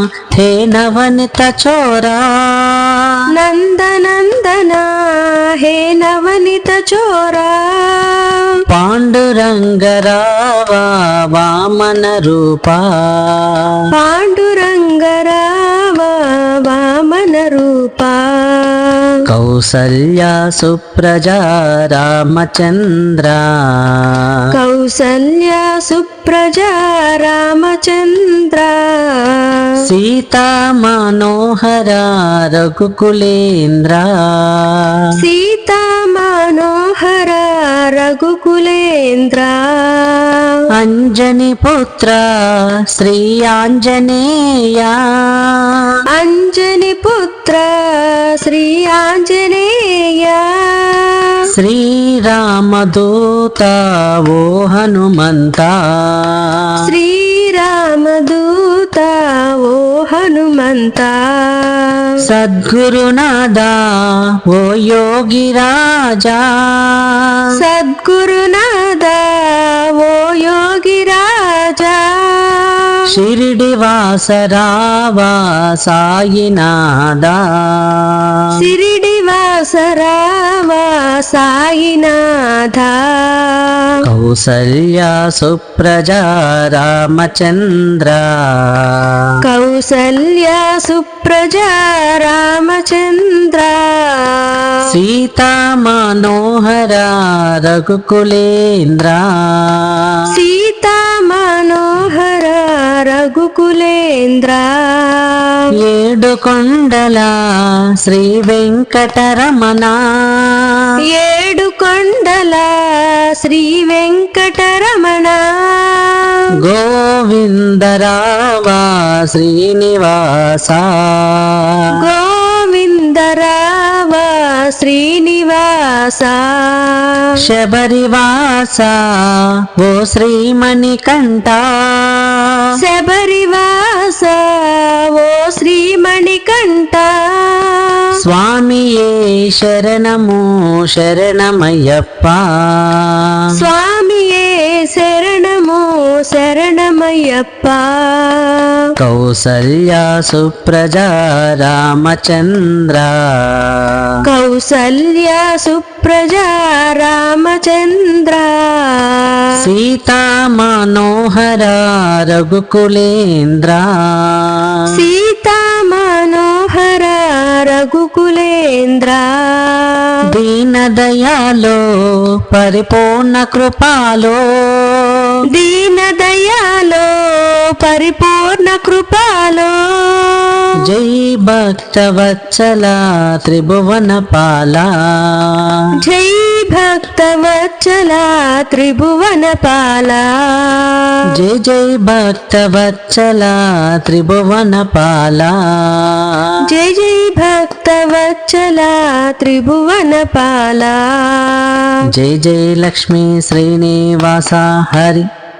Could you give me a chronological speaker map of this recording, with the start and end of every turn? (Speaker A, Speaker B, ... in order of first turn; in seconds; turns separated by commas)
Speaker A: 0.3-3.2, Speaker B: 3.3-8.6, Speaker A: 8.7-13.8, Speaker B: 13.9-19.2, Speaker A: 19.3-24.4, Speaker B: 24.5-29.8, Speaker A: 29.8-35.1, Speaker B: 35.2-40.6, Speaker A: 40.7-45.6, Speaker B: 46.1-51.4, Speaker A: 51.5-56.8, Speaker B: 56.8-62.1, Speaker A: 62.2-67.4, Speaker B: 67.6-73.0, Speaker A: 73.1-78.5, Speaker B: 78.6-84.0, Speaker A: 84.0-89.3, Speaker B: 89.4-94.8, Speaker A: 94.9-100.3, Speaker B: 100.3-105.7, Speaker A: 105.8-107.4, Speaker A: 108.0-110.8, Speaker B: 111.1-116.5, Speaker A: 116.6-122.0, Speaker B: 122.0-127.4, Speaker A: 127.4-132.6, Speaker B: 132.8-138.1, Speaker A: 138.2-143.5, Speaker B: 143.6-148.9, Speaker A: 149.0-154.2, Speaker B: 154.2-159.5, Speaker A: 159.6-164.9, Speaker B: 164.9-170.2, Speaker A: 170.3-171.8, Speaker A: 172.4-175.3, Speaker B: 175.5-180.7, Speaker A: 180.8-185.9, Speaker B: 185.9-191.2, Speaker A: 191.3-196.5, Speaker B: 196.7-202.0, Speaker A: 202.1-205.2